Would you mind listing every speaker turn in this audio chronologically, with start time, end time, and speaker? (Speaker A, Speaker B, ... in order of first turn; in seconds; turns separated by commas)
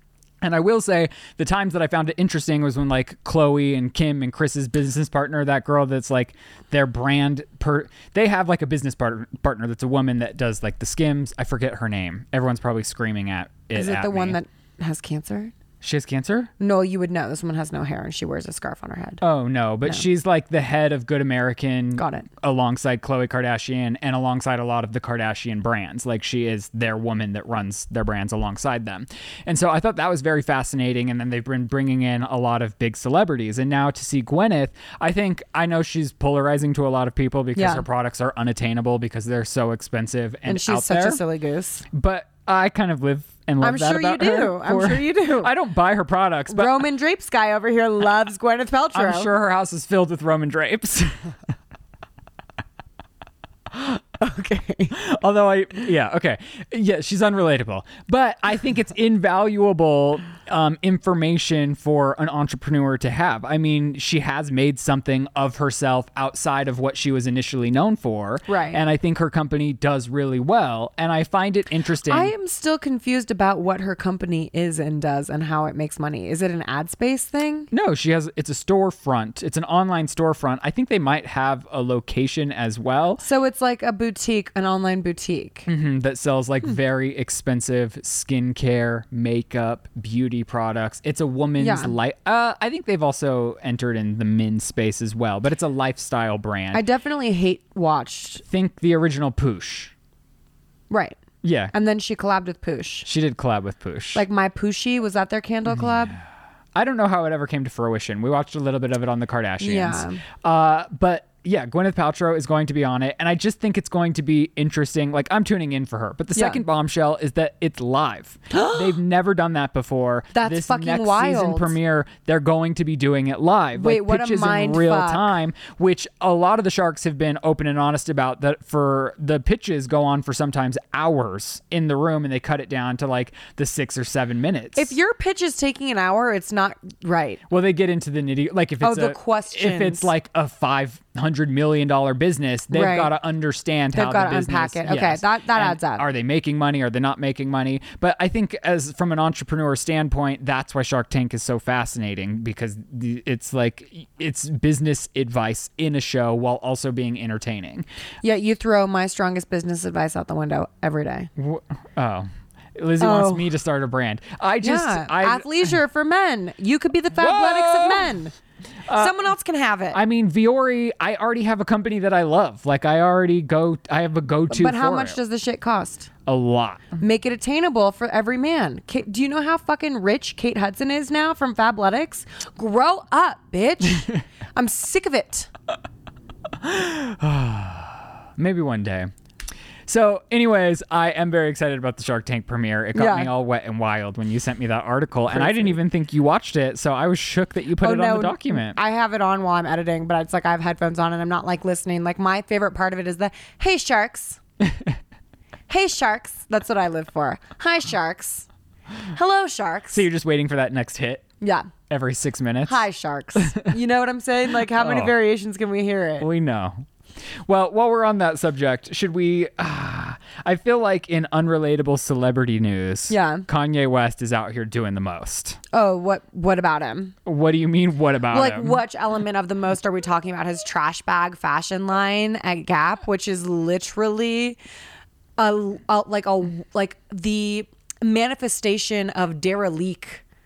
Speaker A: 0.4-14.4, Speaker B: 13.7-15.5, Speaker A: 15.8-16.5, Speaker B: 16.6-19.2, Speaker A: 19.2-41.2, Speaker B: 22.0-22.3, Speaker B: 37.5-37.8, Speaker B: 40.5-41.9, Speaker A: 41.9-46.8, Speaker B: 43.6-45.5, Speaker B: 46.5-49.3, Speaker A: 48.9-51.1, Speaker B: 53.7-55.0, Speaker A: 54.9-72.3, Speaker B: 68.5-68.8, Speaker B: 72.1-77.7, Speaker A: 77.7-83.2, Speaker B: 83.2-85.7, Speaker A: 85.7-96.8, Speaker B: 91.6-91.9, Speaker B: 96.7-98.4, Speaker A: 98.4-99.9, Speaker B: 100.9-101.2, Speaker A: 101.4-101.7, Speaker B: 101.7-103.1, Speaker A: 103.0-104.2, Speaker B: 104.1-106.2, Speaker A: 106.7-134.9, Speaker B: 109.6-110.2, Speaker B: 116.3-116.6, Speaker B: 118.5-118.9, Speaker B: 120.3-121.8, Speaker B: 123.8-125.3, Speaker B: 134.8-137.4, Speaker A: 137.5-157.8, Speaker B: 138.8-140.1, Speaker B: 142.7-143.1, Speaker B: 143.9-146.0, Speaker B: 158.2-161.3, Speaker A: 161.4-165.5, Speaker B: 163.0-163.4, Speaker B: 164.6-168.3, Speaker A: 167.1-168.2, Speaker A: 168.8-169.3, Speaker B: 168.9-170.0, Speaker A: 169.9-175.2, Speaker B: 174.5-176.1, Speaker A: 176.2-176.9, Speaker B: 177.0-185.5, Speaker A: 186.6-189.1, Speaker A: 189.8-198.8, Speaker B: 192.9-193.3, Speaker B: 195.3-195.8, Speaker B: 197.8-204.4, Speaker B: 205.7-208.5, Speaker B: 209.1-210.0, Speaker A: 209.9-211.3, Speaker B: 211.4-211.7, Speaker A: 211.9-212.8, Speaker B: 212.6-216.3, Speaker A: 213.4-213.7, Speaker A: 214.7-215.1, Speaker A: 216.2-216.8, Speaker A: 217.4-225.6, Speaker B: 223.1-223.5, Speaker B: 225.7-227.2, Speaker A: 227.2-228.8, Speaker B: 228.3-234.6, Speaker B: 235.4-240.2